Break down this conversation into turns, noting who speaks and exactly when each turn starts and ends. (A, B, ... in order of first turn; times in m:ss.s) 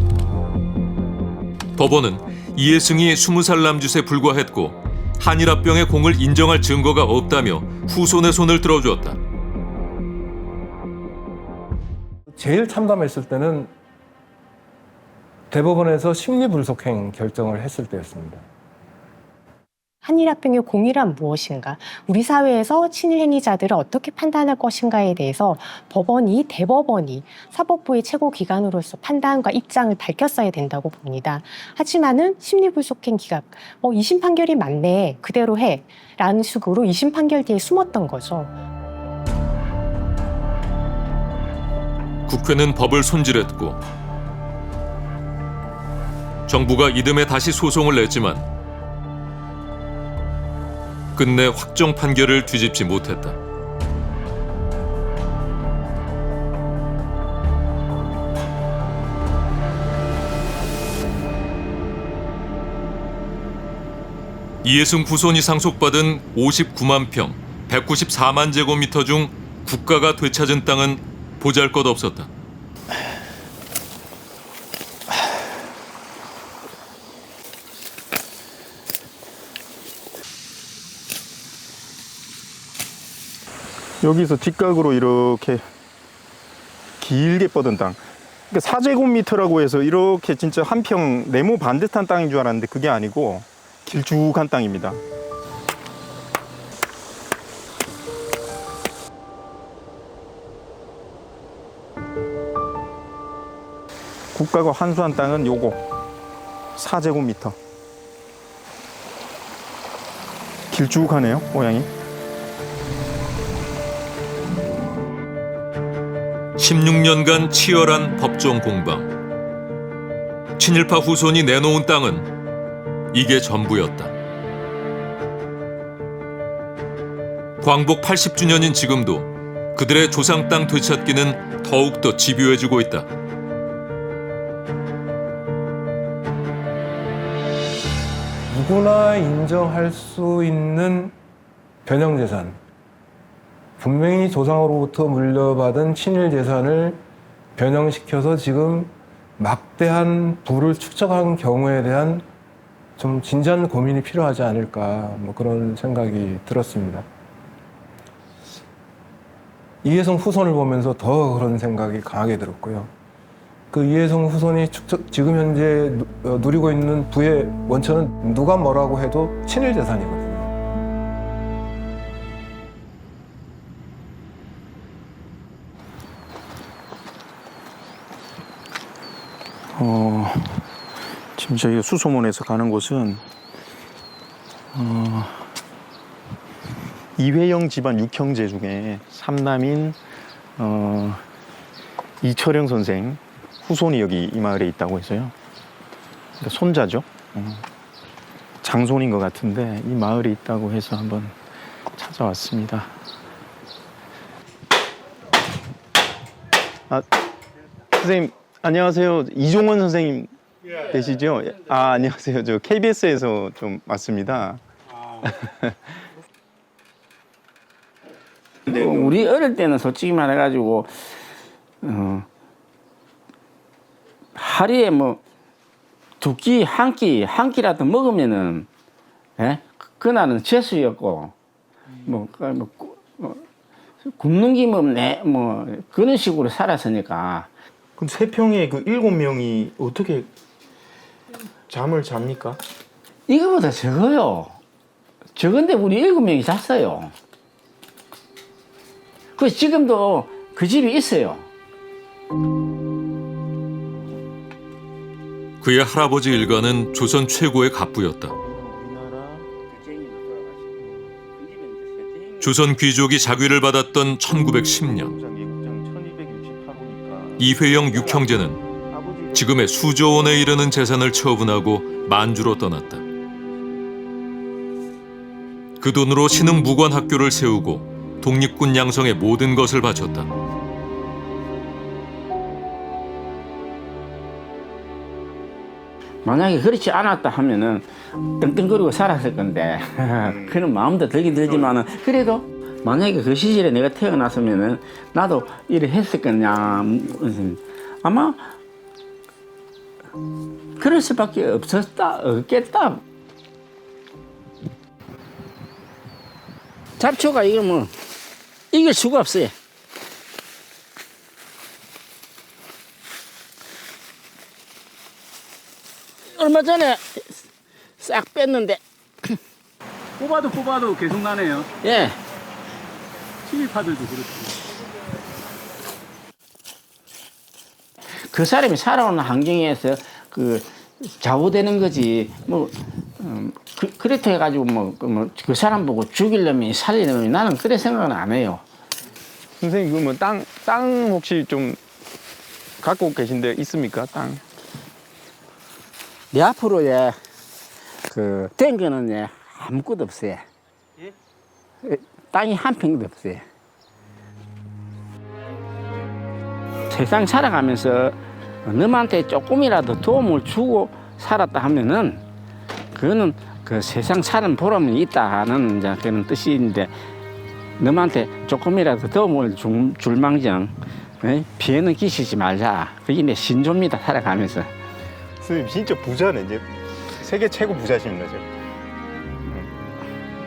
0:01.8-0:09.2 A
0:12.4-0:13.7 B
0:15.5-0:18.4 B
0:20.0-0:38.5 C
0:42.3-0:43.8 A
0:46.5-0:48.4 A
0:51.2-0:53.4 A
1:04.6-1:12.3 A
1:24.0-1:25.6 D
1:27.0-1:35.0 D
1:44.3-1:45.8 D
1:46.8-1:47.6 D
1:50.7-1:51.9 D
1:56.6-1:59.1 A
2:00.6-2:02.3 A
2:03.1-2:04.1 A
2:07.6-2:13.1 A
2:18.5-2:21.1 B
2:21.8-2:22.6 B
2:23.8-2:27.0 B
2:27.6-2:32.2 B
2:33.0-2:37.0 B
2:39.8-2:42.9 B
2:43.7-2:50.5 B
2:59.8-3:00.6 D
3:01.4-3:03.2 D
3:04.7-3:05.5 D
3:07.2-3:10.0 D
3:10.6-3:11.2 D
3:12.2-3:15.3 D
3:16.4-3:17.6 D
3:18.6-3:21.3 D
3:22.0-3:22.9 D
3:27.9-3:34.6 D
3:35.2-3:35.7 D
3:38.7-3:41.0 E
3:41.8-3:42.3 E
3:44.3-3:45.2 E
3:46.2-3:48.7 E
3:49.4-3:51.3 E
3:52.0-3:53.4 E
3:54.0-3:57.5 E
3:58.0-4:00.3 D
4:01.7-4:02.6 D
4:03.3-4:04.6 E
4:05.3-4:07.1 E
4:09.4-4:11.5 E
4:15.6-4:18.3 A
4:18.4-4:19.5 D
4:19.7-4:20.7 E
4:21.4-4:22.5 E
4:22.4-4:25.1 A
4:24.8-4:28.4 D
4:27.4-4:28.6 A
4:28.9-4:29.7 D
4:29.3-4:33.0 A
4:35.8-4:40.3 A
4:46.2-4:58.5 E
5:00.8-5:03.0 E
5:07.0-5:08.0 E
5:08.7-5:09.6 E
5:16.3-5:17.2 E
5:18.0-5:19.4 E
5:20.2-5:21.7 F
5:21.8-5:22.2 E
5:23.4-5:24.6 F
5:28.2-5:38.6 E
5:39.6-5:41.8 D
5:42.8-5:44.4 D
5:46.3-5:47.2 E
5:48.0-5:50.4 E
5:51.8-5:53.4 E
5:56.9-6:02.2 E
6:02.9-6:07.0 E
6:07.8-6:14.7 E
6:15.4-6:18.4 D